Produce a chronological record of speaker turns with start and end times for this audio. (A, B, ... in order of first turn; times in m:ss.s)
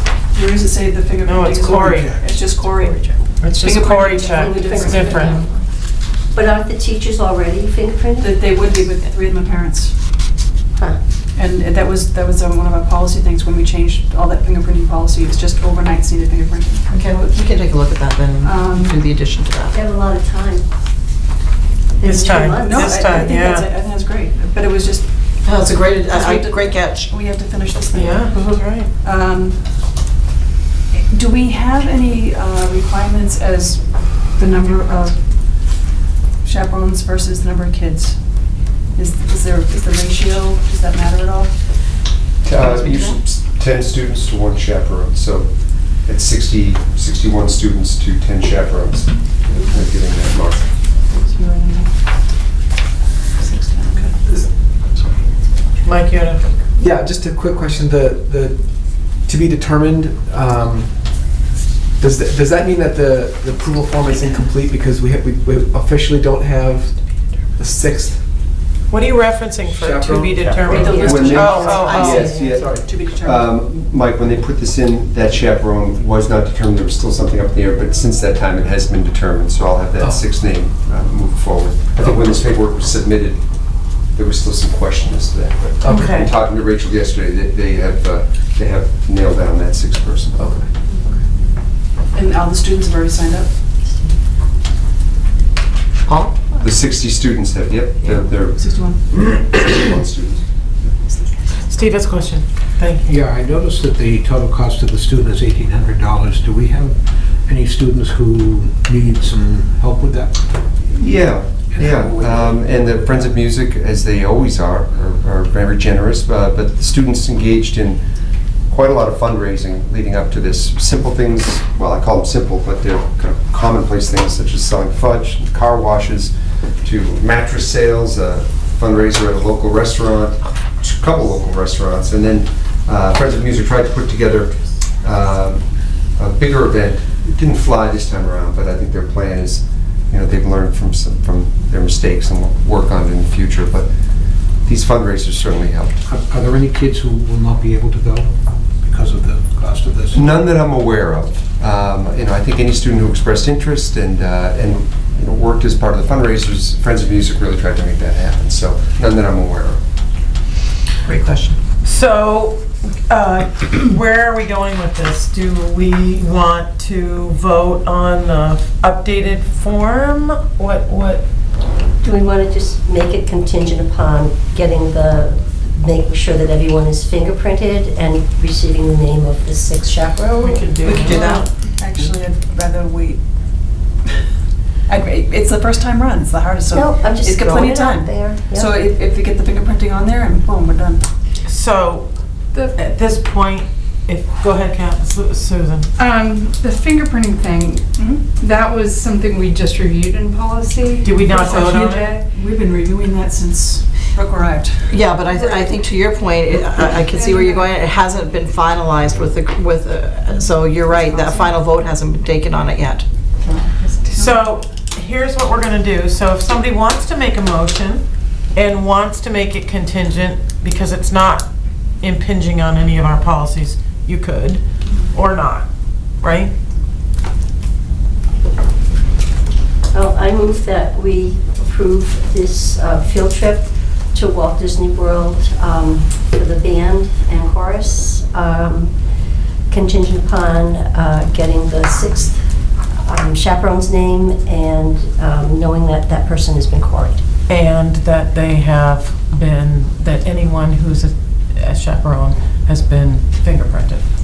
0:00.3-0:05.5 A
0:01.2-0:02.1 B
0:01.8-0:02.2 C
0:03.4-0:05.4 B
0:04.3-0:05.6 D
0:06.3-0:08.9 D
0:08.2-0:10.0 A
0:11.4-0:16.9 A
0:16.9-0:19.7 E
0:18.4-0:19.0 A
0:19.7-0:20.6 D
0:22.0-0:23.1 D
0:22.0-0:23.7 B
0:22.6-0:25.1 A
0:25.4-0:27.1 E
0:26.1-0:29.6 A
0:27.9-0:28.9 B
0:30.9-0:35.2 A
0:36.4-0:41.6 A
0:42.4-0:50.7 F
0:42.6-0:43.2 A
0:51.1-0:51.9 A
0:53.4-0:54.2 A
0:55.8-0:56.4 B
0:56.8-0:58.6 G
0:59.2-1:00.9 G
1:02.0-1:07.0 G
1:07.6-1:08.2 G
1:08.9-1:12.3 B
1:09.7-1:12.8 C
1:10.4-1:23.4 F
1:10.6-1:13.5 A
1:10.7-1:12.4 D
1:11.4-1:12.2 E
1:20.0-1:20.3 C
1:24.1-1:30.5 F
1:25.8-1:26.2 C
1:25.9-1:26.3 B
1:32.1-1:33.5 A
1:36.6-1:40.9 F
1:38.0-1:39.1 A
1:41.7-1:43.1 B
1:43.0-1:50.4 C
1:50.9-1:58.0 F
1:51.8-1:52.9 C
1:58.7-2:23.9 F
2:24.6-2:26.0 F
2:26.1-2:30.3 C
2:30.1-2:39.8 F
2:41.1-2:41.6 E
2:41.8-2:51.2 B
2:52.0-3:00.7 D
3:00.4-3:01.1 B
3:00.8-3:01.5 E
3:01.0-3:03.2 A
3:04.9-3:11.0 A
3:06.7-3:08.7 D
3:11.5-3:12.1 B
3:12.8-3:15.9 B
3:16.0-3:22.2 H
3:18.0-3:18.2 A
3:21.0-3:22.1 B
3:21.4-3:24.9 A
3:24.9-3:33.0 E
3:26.6-3:27.7 H
3:30.9-3:31.2 H
3:33.4-3:34.4 A
3:34.2-3:41.5 B
3:42.0-3:45.7 B
3:46.2-3:46.5 B
3:49.9-3:59.0 D
3:59.7-4:07.2 D
4:07.5-4:14.0 B